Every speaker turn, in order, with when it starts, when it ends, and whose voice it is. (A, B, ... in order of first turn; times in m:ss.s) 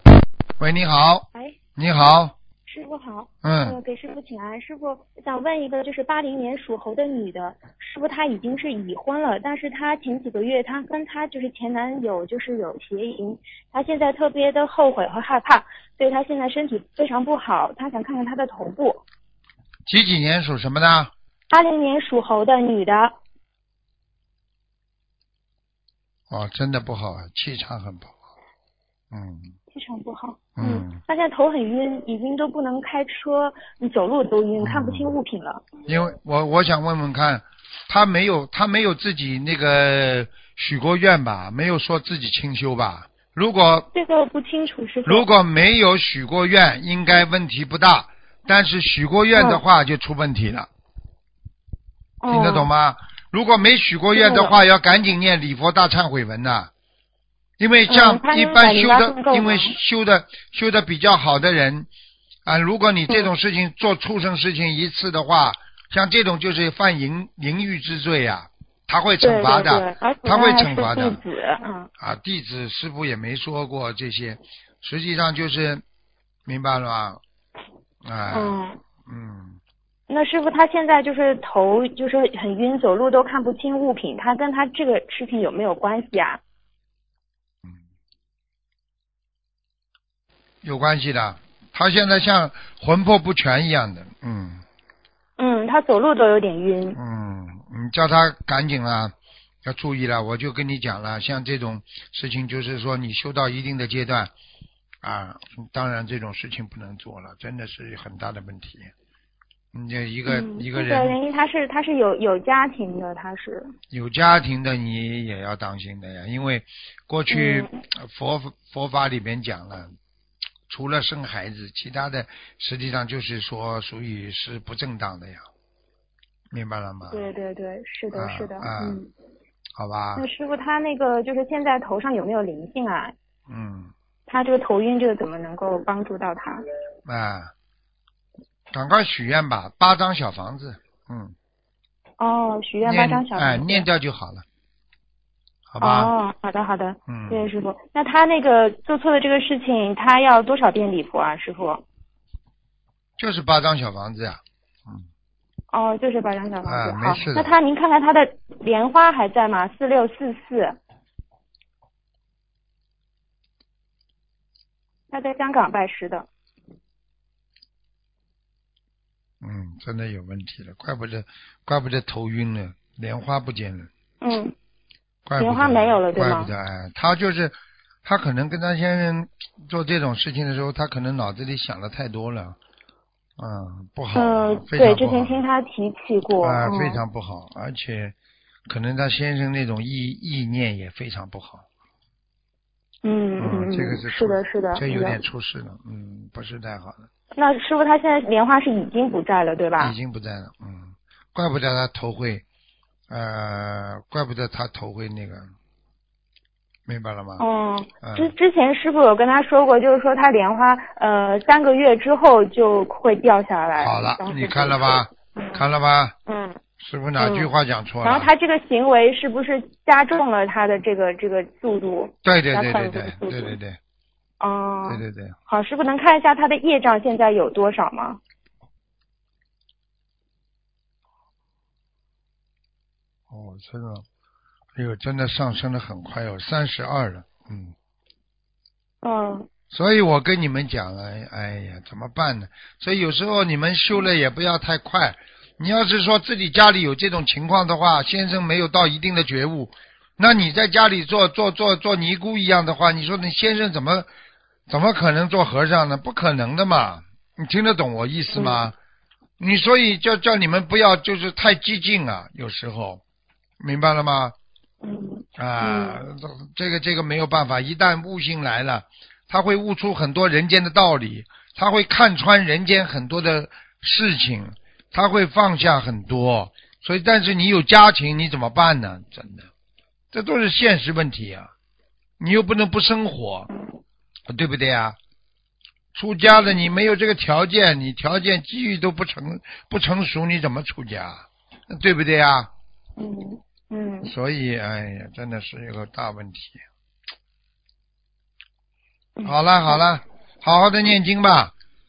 0:00.6-0:02.4 A
0:02.7-0:19.0 B
0:03.4-0:03.8 A
0:19.9-0:21.1 A
0:21.5-0:23.2 B
0:26.3-0:28.2 A
0:29.1-0:29.5 A
0:29.7-0:35.7 B
0:30.6-0:31.0 A
0:34.6-0:35.1 A
0:35.9-0:43.9 A
0:43.9-0:45.3 B
0:45.1-0:50.7 A
0:49.4-0:49.6 B
0:52.2-0:52.7 B
0:52.3-0:56.7 A
0:54.2-0:54.6 B
0:57.6-1:01.9 A
0:57.9-0:59.8 B
1:02.5-1:11.2 A
1:09.2-1:11.9 B
1:12.0-1:15.8 A
1:16.5-1:17.2 A
1:18.0-1:19.6 A
1:18.3-1:18.8 B
1:20.1-1:26.4 B
1:30.6-1:34.6 A
1:35.4-1:37.0 B
1:37.0-1:39.1 A
1:39.6-1:44.3 A
1:45.0-1:48.9 A
1:49.7-1:51.2 A
1:50.3-1:53.7 B
1:53.9-1:59.9 A
1:57.3-1:57.7 B
2:00.7-2:05.5 A
2:06.5-2:07.3 A
2:07.1-2:09.1 B
2:08.1-2:09.0 A
2:09.8-2:10.2 A
2:10.2-2:13.2 B
2:13.5-2:13.9 A
2:14.3-2:16.6 B
2:17.0-2:17.5 A
2:18.7-2:21.4 A
2:22.2-2:23.9 B
2:22.8-2:24.4 A
2:25.7-2:26.1 A
2:25.8-2:31.8 B
2:27.1-2:27.5 A
2:33.2-2:35.1 A
2:35.7-2:40.8 B
2:36.7-2:37.6 A
2:45.1-2:46.3 B
2:49.4-2:53.9 A
2:54.2-2:54.5 B
2:55.3-3:02.6 A
2:55.4-2:56.5 B
3:03.4-3:05.4 A
3:04.2-3:07.0 B
3:06.4-3:08.2 A
3:08.7-3:11.6 A
3:13.0-3:15.2 B
3:13.4-3:17.1 A
3:17.4-3:20.0 B
3:19.8-3:22.4 A
3:23.1-3:25.5 A
3:26.9-3:27.4 A
3:27.4-3:35.6 B
3:28.0-3:28.3 A
3:33.8-3:36.1 A
3:36.3-3:36.6 B
3:36.8-3:38.3 A
3:37.2-3:37.5 B
3:38.0-3:43.6 B
3:42.2-3:43.8 A
3:44.4-3:48.2 B
3:44.9-3:45.4 A
3:53.3-3:54.0 A
3:54.8-3:57.7 A
3:59.0-3:59.5 B
3:59.7-4:14.1 A
4:14.7-4:18.8 A
4:19.4-4:23.0 A
4:23.6-4:24.4 A
4:24.8-4:26.0 B
4:25.4-4:39.5 A
4:40.1-4:41.5 A
4:42.2-4:43.5 A
4:44.3-4:45.0 A
4:45.9-4:52.5 A
4:53.0-4:54.1 B
4:54.1-4:56.6 A
4:59.2-4:59.8 B
4:59.2-5:01.5 A